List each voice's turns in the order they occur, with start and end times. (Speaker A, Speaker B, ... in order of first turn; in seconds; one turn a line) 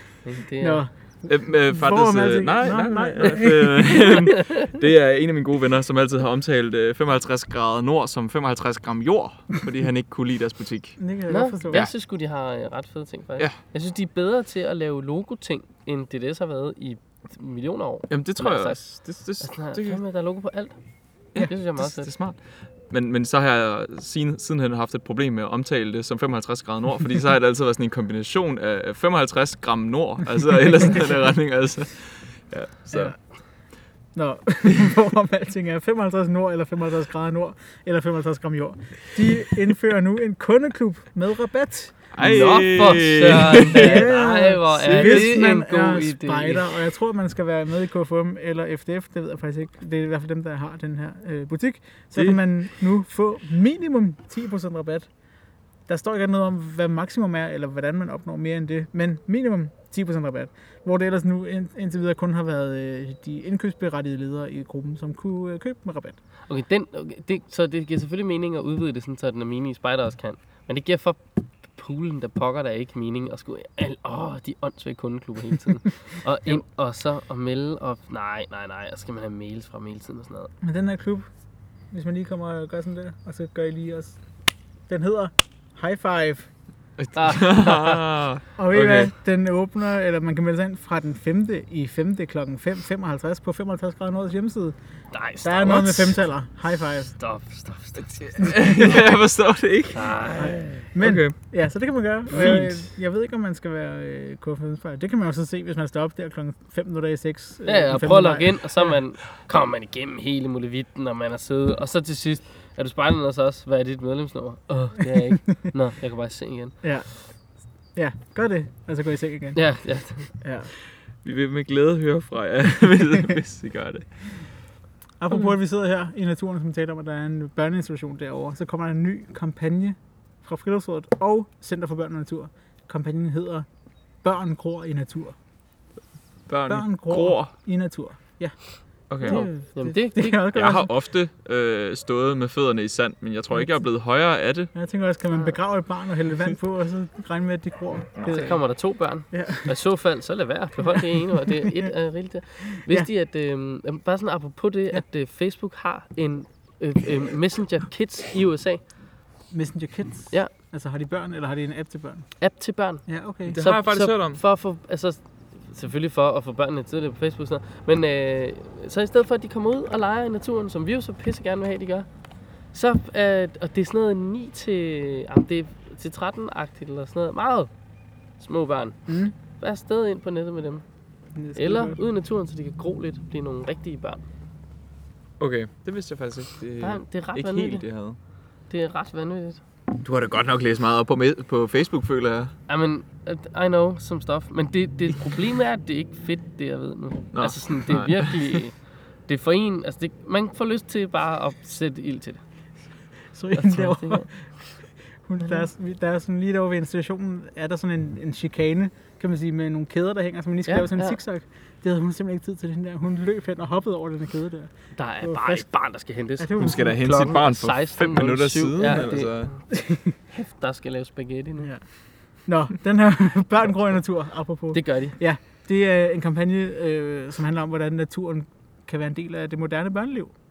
Speaker A: 0.2-0.8
Speaker B: 0.6-4.3
Speaker C: 1.3-11.0
Speaker A: 4.3-4.7
Speaker B: 11.0-11.8
Speaker A: 11.3-18.8
Speaker C: 18.1-20.0
Speaker A: 19.4-20.8
Speaker C: 21.3-33.1
Speaker A: 21.4-22.1
Speaker B: 34.1-42.1
Speaker C: 42.1-44.0
Speaker A: 42.2-46.8
Speaker B: 43.7-55.1
Speaker C: 44.7-45.3
Speaker B: 55.9-66.2
Speaker A: 66.5-80.5
Speaker B: 80.6-81.3
Speaker B: 81.9-84.2
Speaker B: 84.9-86.5
Speaker C: 87.0-89.1
Speaker A: 87.1-88.0
Speaker B: 88.6-94.8
Speaker A: 95.1-96.2
Speaker B: 95.4-97.1
Speaker A: 97.2-98.5
Speaker C: 98.3-100.3
Speaker B: 98.4-99.0
Speaker A: 99.9-100.8
Speaker B: 100.3-109.0
Speaker C: 101.0-101.3
Speaker C: 102.3-102.7
Speaker A: 107.6-116.8
Speaker B: 116.8-117.3
Speaker B: 117.9-119.6
Speaker A: 119.5-120.3
Speaker B: 120.3-120.7
Speaker C: 121.2-124.1
Speaker B: 125.2-133.7
Speaker B: 134.2-135.3
Speaker C: 136.5-137.5
Speaker B: 136.7-138.6
Speaker C: 139.1-139.4
Speaker B: 139.2-140.9
Speaker A: 139.2-140.4
Speaker C: 140.5-144.7
Speaker B: 144.7-148.6
Speaker A: 148.2-158.8
Speaker B: 149.3-149.7
Speaker B: 151.4-151.9
Speaker B: 159.5-162.3
Speaker A: 162.4-172.1
Speaker B: 163.1-163.6
Speaker C: 163.5-164.4
Speaker A: 172.7-177.7
Speaker A: 178.4-180.8
Speaker B: 179.1-179.3
Speaker B: 181.3-182.0
Speaker A: 181.5-184.2
Speaker C: 185.4-188.2
Speaker A: 186.8-187.8
Speaker A: 188.7-189.6
Speaker C: 190.0-192.5
Speaker A: 192.7-198.8
Speaker C: 197.3-198.6
Speaker A: 199.3-202.4
Speaker B: 203.3-204.4
Speaker A: 203.5-204.3
Speaker B: 205.2-215.7
Speaker A: 210.7-211.2
Speaker A: 214.9-219.7
Speaker B: 216.4-217.1
Speaker C: 216.6-219.5
Speaker B: 219.7-220.1
Speaker A: 220.3-221.7
Speaker B: 222.4-230.3
Speaker A: 224.7-225.2